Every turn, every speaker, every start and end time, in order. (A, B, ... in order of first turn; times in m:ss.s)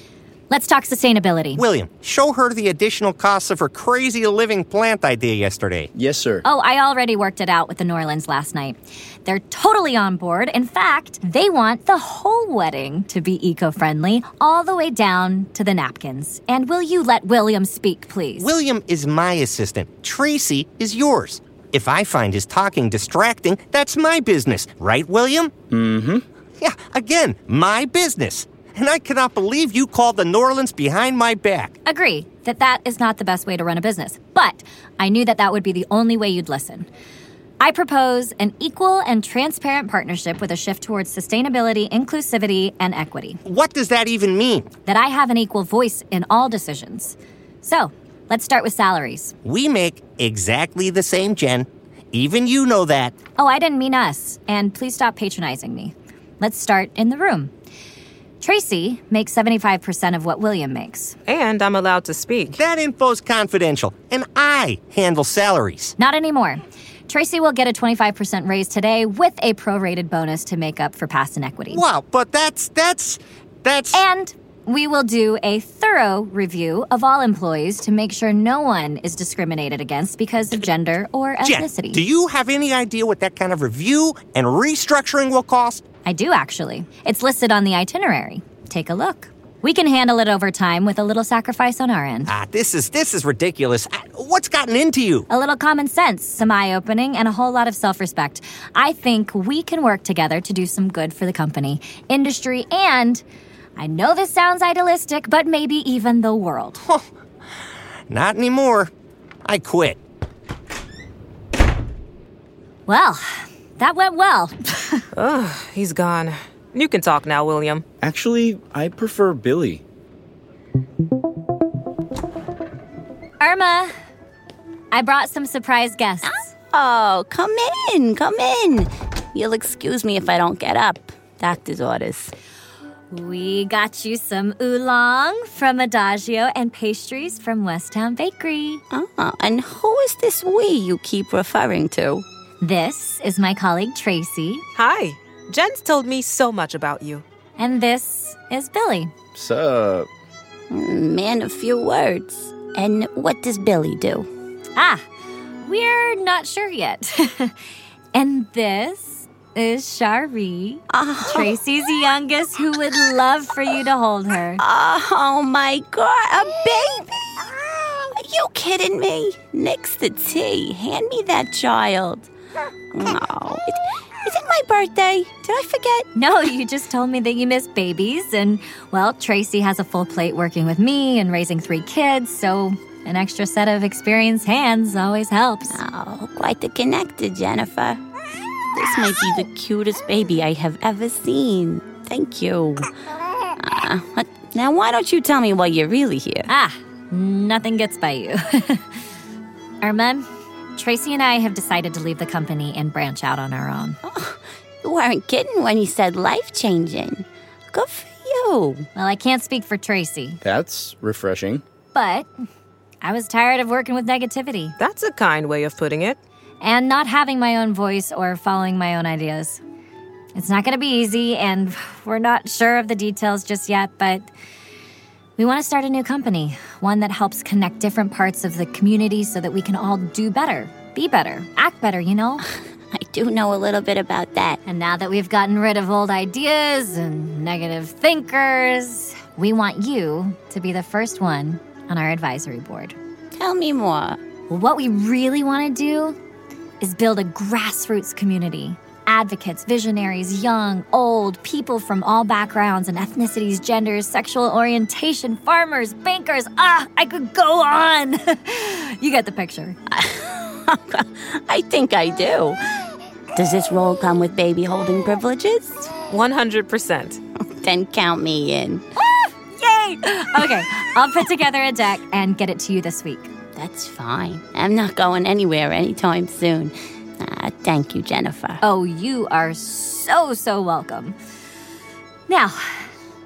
0:00.5-0:01.6 A
0:01.6-0:05.9 B
0:05.9-0:06.4 C
0:06.4-0:18.5 A
0:18.4-0:25.5 B
0:25.7-0:26.2 C
0:26.6-0:31.7 B
0:31.8-0:36.9 A
0:37.6-0:43.4 A
0:43.4-0:44.7 B
0:44.8-0:49.3 A
0:49.4-0:53.1 B
0:53.4-0:57.5 A
0:58.4-1:01.2 A
1:01.2-1:02.6 D
1:02.5-1:05.9 B
1:06.0-1:11.8 A
1:11.7-1:14.0 B
1:13.9-1:22.0 A
1:21.4-1:25.8 B
1:26.0-1:32.3 A
1:32.3-1:35.3 B
1:35.3-1:43.2 A
1:43.8-1:46.8 A
1:48.1-1:48.9 B
1:49.4-1:50.0 B
1:52.9-1:55.0 A
1:55.1-1:57.8 D
1:58.0-1:59.8 C
2:03.4-2:03.9 A
2:04.9-2:06.4 A
2:06.2-2:12.3 E
2:13.1-2:18.8 A
2:18.9-2:22.2 E
2:22.6-2:24.6 A
2:24.7-2:27.2 D
2:27.6-2:29.1 A
2:29.3-2:30.1 C
2:30.7-2:34.3 E
2:34.8-2:35.0 A
2:35.6-2:37.5 A
2:38.1-2:44.6 A
2:40.9-2:41.5 E
2:44.6-2:47.5 E
2:48.1-2:52.3 E
2:52.9-2:56.0 E
2:56.1-3:05.8 A
3:05.7-3:08.0 E
3:08.7-3:12.9 E
3:13.6-3:16.5 E
3:16.5-3:18.8 A
3:19.8-3:20.2 A
3:20.8-3:24.0 A
3:24.0-3:28.8 E
3:28.9-3:30.4 A
3:30.4-3:31.6 C
3:31.9-3:32.3 A
3:33.0-3:34.7 A
3:34.8-3:36.2 D
3:36.6-3:39.6 A
3:40.3-3:44.3 A
3:45.4-3:52.4 A
3:52.9-3:54.6 E
3:54.6-4:02.9 A
4:03.3-4:04.2 E
4:04.5-4:06.2 A
4:06.8-4:19.8 A
4:19.9-4:22.6 E
4:23.4-4:26.0 E
4:26.1-4:27.2 D
4:27.6-4:28.8 E
4:29.0-4:33.3 A
4:33.6-4:38.6 E
4:38.6-4:41.1 A
4:42.3-4:42.8 A